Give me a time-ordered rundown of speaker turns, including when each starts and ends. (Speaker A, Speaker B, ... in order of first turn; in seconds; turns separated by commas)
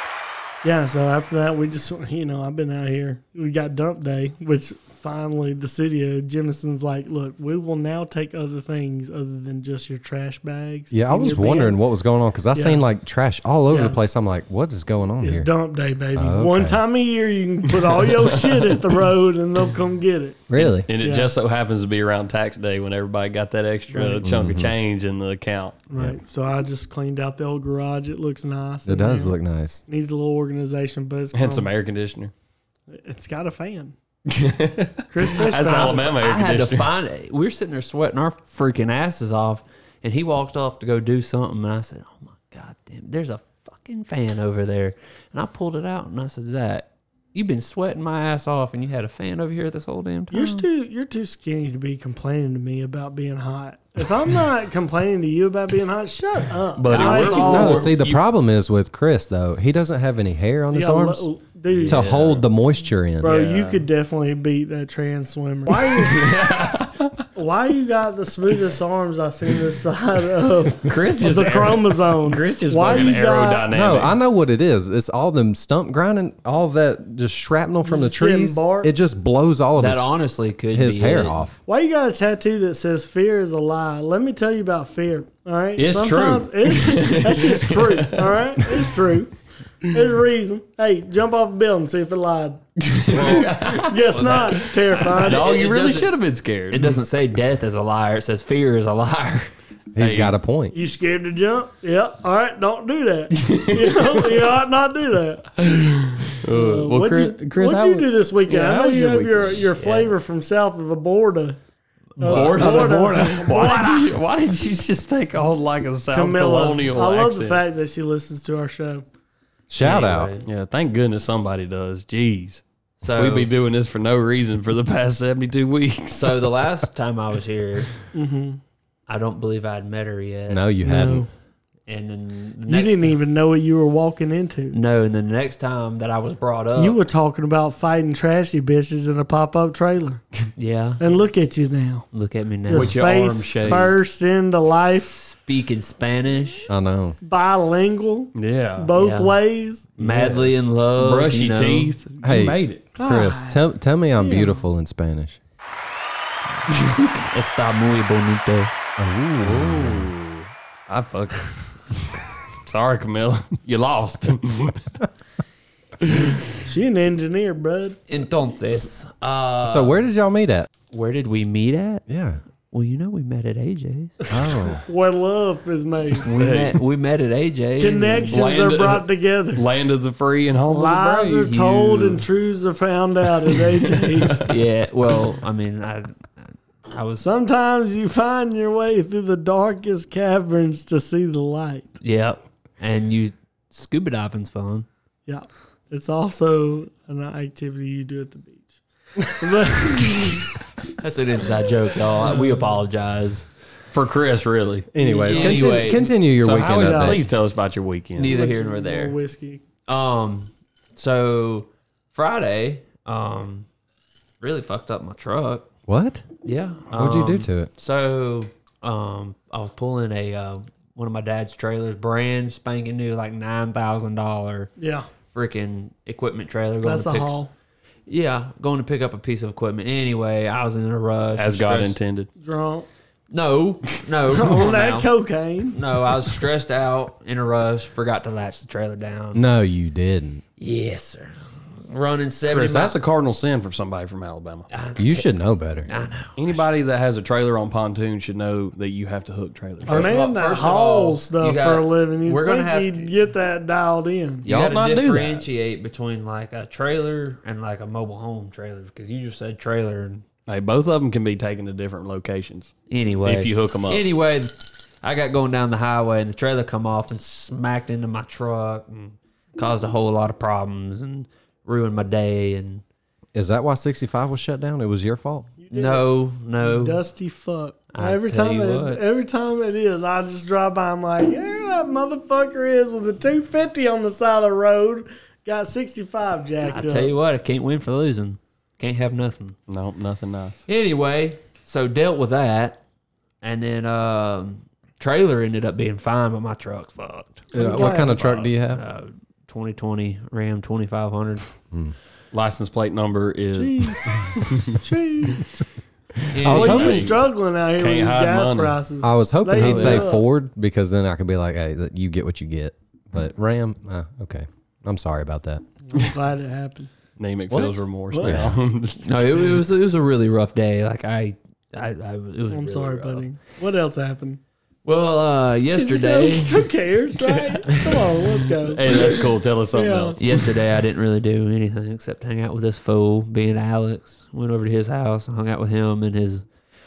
Speaker A: 0.6-11.8, Speaker B: 10.9-15.5, Speaker A: 12.5-12.8, Speaker A: 13.7-14.0, Speaker A: 15.2-21.3, Speaker B: 16.1-16.8, Speaker C: 17.8-18.9, Speaker B: 20.5-20.9, Speaker C: 20.6-25.8, Speaker A: 23.9-24.3, Speaker B: 24.2-24.7, Speaker A: 25.9-29.4, Speaker B: 28.9-29.8, Speaker A: 29.9-31.7, Speaker C: 31.3-32.3, Speaker A: 32.9-34.0, Speaker C: 34.3-36.9, Speaker A: 35.1-36.1, Speaker D: 35.7-50.6, Speaker A: 50.3-57.9, Speaker C: 56.8-58.2, Speaker D: 56.9-57.9, Speaker B: 57.4-61.3, Speaker A: 60.7-62.2, Speaker C: 61.7-62.4, Speaker B: 61.9-63.5, Speaker A: 63.2-66.3, Speaker C: 63.3-63.9, Speaker C: 65.8-67.2, Speaker A: 67.3-73.7, Speaker C: 70.8-74.2, Speaker B: 73.7-80.1, Speaker A: 77.8-78.9, Speaker D: 79.8-81.4, Speaker B: 80.7-81.6, Speaker A: 81.7-95.7, Speaker C: 85.8-88.9, Speaker C: 92.8-97.0, Speaker D: 93.1-93.5, Speaker D: 94.1-99.5, Speaker B: 99.9-100.8, Speaker C: 100.0-100.3, Speaker A: 100.7-105.6, Speaker C: 103.4-104.4, Speaker C: 105.6-109.6, Speaker A: 106.4-111.6, Speaker D: 109.8-110.2, Speaker D: 112.2-113.2, Speaker A: 112.2-114.2, Speaker C: 112.2-117.6, Speaker A: 116.1-119.1, Speaker B: 119.7-120.3, Speaker D: 119.8-120.5, Speaker C: 120.5-126.4, Speaker D: 123.0-123.5, Speaker D: 126.1-127.9, Speaker A: 128.1-128.6, Speaker D: 129.1-130.6, Speaker B: 130.5-131.3, Speaker A: 130.8-131.3, Speaker D: 131.9-133.2, Speaker A: 132.7-134.8, Speaker D: 134.7-137.0, Speaker A: 136.8-140.2, Speaker D: 140.6-141.0, Speaker A: 141.0-142.1, Speaker D: 142.1-143.0, Speaker A: 142.7-145.2, Speaker C: 142.7-144.0, Speaker D: 143.7-143.9, Speaker D: 144.8-146.7, Speaker B: 146.7-147.2, Speaker A: 147.2-149.9, Speaker C: 148.4-148.9, Speaker D: 148.9-149.4, Speaker D: 150.0-151.9, Speaker C: 150.0-152.8, Speaker B: 152.2-155.4, Speaker A: 153.0-153.6, Speaker A: 154.2-154.6, Speaker D: 157.1-158.7, Speaker B: 159.0-160.1, Speaker C: 159.4-164.8, Speaker C: 166.1-166.4, Speaker A: 166.6-168.0, Speaker D: 168.1-170.1, Speaker B: 169.6-170.7, Speaker D: 170.9-172.1, Speaker B: 172.1-172.4, Speaker D: 172.7-174.2, Speaker B: 174.3-174.8, Speaker A: 174.3-176.3, Speaker D: 176.2-178.5, Speaker C: 176.4-176.8, Speaker A: 177.8-179.7, Speaker C: 178.3-181.6, Speaker A: 180.7-184.5, Speaker D: 181.5-182.2, Speaker C: 183.9-184.4, Speaker D: 184.5-187.3, Speaker A: 187.2-192.0, Speaker D: 192.0-194.9, Speaker A: 195.3-200.6, Speaker D: 201.0-203.5, Speaker C: 203.9-204.9, Speaker B: 204.9-207.3, Speaker A: 205.0-206.0, Speaker D: 205.3-206.1, Speaker C: 206.3-208.5, Speaker A: 206.8-207.2, Speaker D: 208.2-209.2, Speaker A: 208.2-209.6, Speaker D: 209.9-213.7, Speaker D: 214.4-215.7, Speaker B: 215.9-216.2, Speaker D: 216.4-224.7, Speaker B: 216.9-217.7, Speaker A: 224.8-225.1, Speaker D: 225.3-227.3, Speaker A: 226.8-227.5, Speaker D: 228.1-232.0, Speaker C: 231.4-232.3, Speaker A: 232.4-232.9, Speaker D: 233.3-235.1, Speaker A: 234.3-235.8, Speaker D: 235.7-239.4, Speaker B: 239.3-240.4, Speaker D: 240.6-242.9, Speaker C: 242.5-244.7, Speaker D: 244.7-246.7, Speaker B: 245.0-245.9, Speaker C: 246.4-250.2, Speaker A: 249.8-254.5, Speaker D: 249.9-253.1, Speaker D: 254.4-260.2, Speaker C: 254.4-255.4, Speaker C: 260.5-264.0, Speaker D: 262.9-272.8, Speaker B: 273.3-275.5, Speaker A: 275.6-276.1, Speaker D: 275.7-277.0, Speaker A: 276.6-287.1, Speaker D: 277.9-279.0, Speaker D: 286.6-289.6, Speaker C: 289.7-290.6, Speaker D: 290.7-292.8, Speaker D: 293.4-301.4, Speaker B: 297.5-298.8, Speaker A: 297.5-298.4, Speaker C: 302.3-304.8, Speaker A: 303.5-304.2, Speaker A: 304.8-305.5, Speaker D: 306.3-307.1, Speaker B: 306.4-307.0, Speaker C: 306.5-307.2, Speaker A: 306.5-310.2, Speaker C: 307.8-308.8, Speaker B: 309.0-315.6, Speaker D: 309.6-310.1, Speaker A: 315.9-316.9, Speaker C: 317.2-319.5, Speaker D: 317.5-317.8, Speaker A: 318.1-318.5, Speaker B: 318.2-318.5, Speaker D: 319.0-323.3, Speaker A: 322.5-324.4, Speaker D: 324.9-326.6, Speaker A: 325.7-330.2, Speaker D: 327.7-328.2, Speaker C: 328.6-330.2, Speaker D: 330.2-336.4